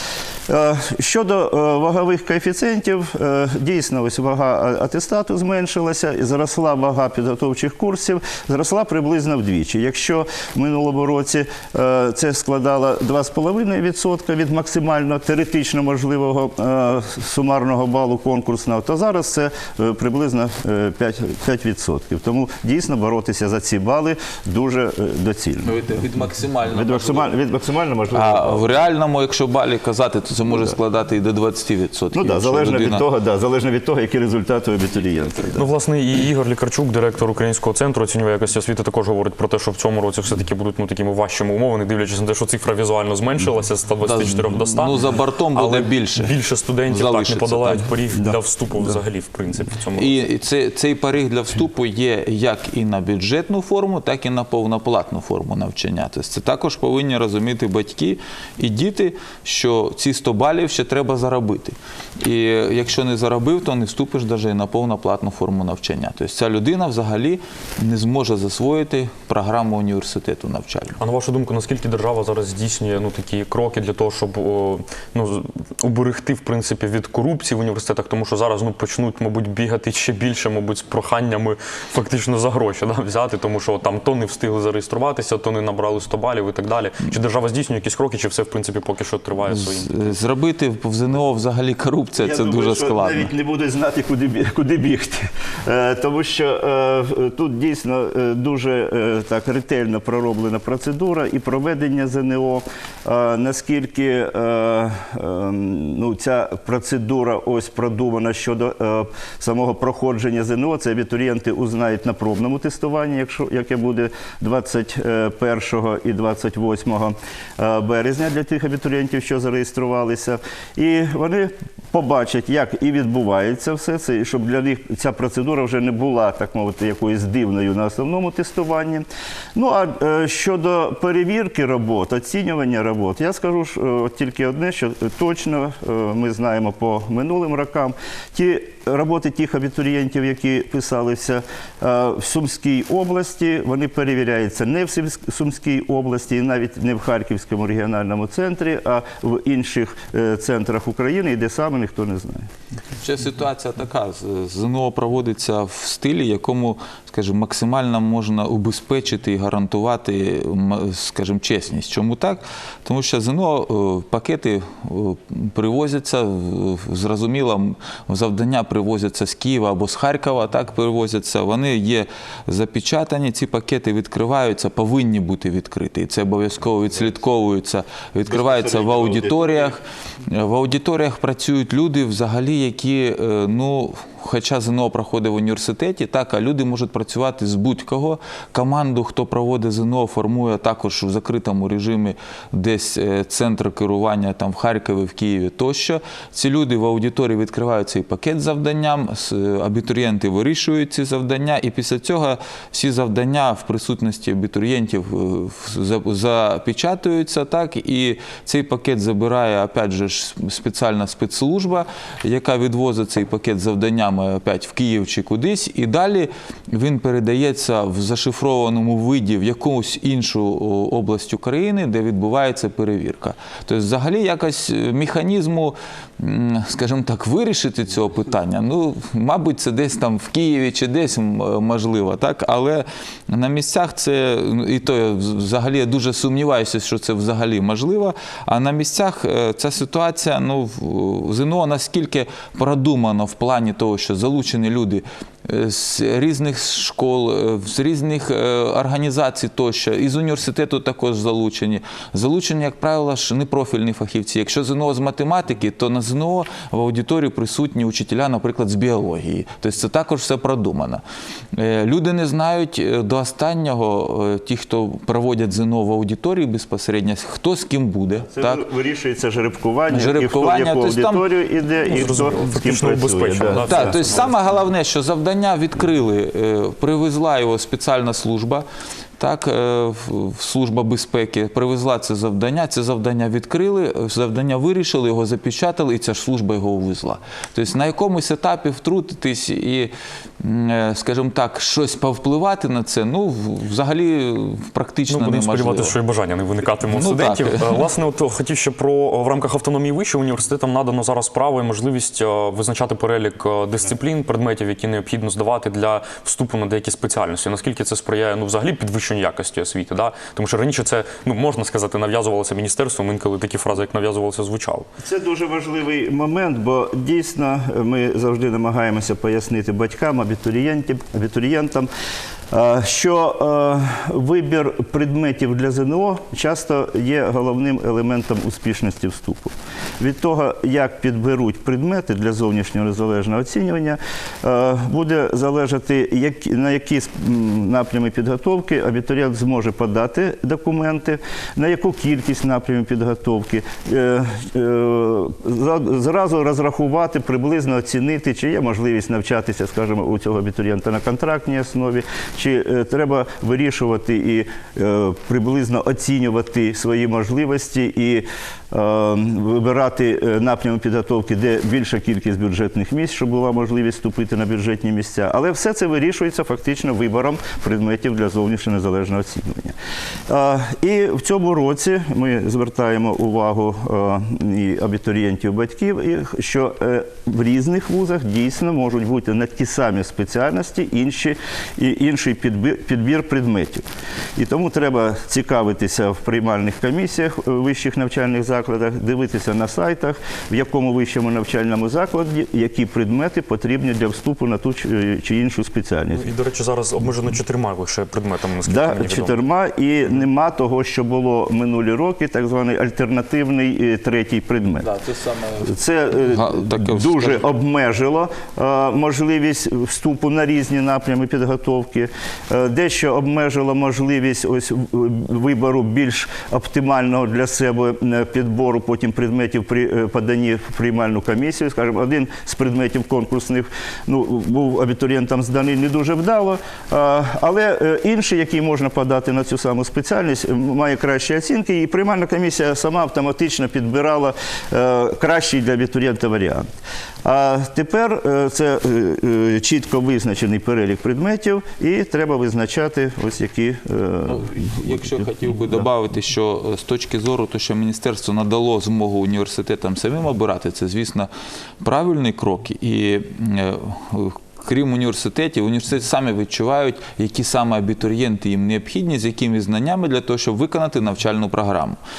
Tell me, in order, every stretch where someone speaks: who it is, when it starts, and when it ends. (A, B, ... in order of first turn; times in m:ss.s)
0:00.5-0:25.7 A
0:25.6-0:27.4 B
0:26.7-0:28.7 A
0:28.1-0:33.0 B
0:30.5-0:30.7 A
0:32.1-0:35.7 A
0:35.6-0:45.0 C
0:44.0-0:46.3 B
0:45.5-0:50.2 C
0:46.9-0:47.9 B
0:50.0-1:11.0 B
1:11.0-1:30.1 C
1:29.5-1:33.3 B
1:32.2-2:32.5 A
2:33.0-4:21.0 B
2:58.3-2:59.8 A
4:21.5-4:28.7 B
4:28.3-4:34.0 A
4:29.9-4:31.2 B
4:31.9-4:34.4 C
4:33.5-4:38.7 B
4:39.2-4:56.0 B
4:55.1-5:14.9 C
4:56.9-4:57.8 B
5:15.0-5:21.9 A
5:22.5-6:09.8 A
6:10.3-6:23.8 A
6:24.4-6:36.3 A
6:36.2-6:39.4 C
6:38.6-6:44.9 A
6:44.8-6:45.7 B
6:45.6-7:16.7 A
6:46.3-6:47.5 B
7:17.2-7:24.9 A
7:24.3-7:31.3 B
7:31.8-7:42.0 B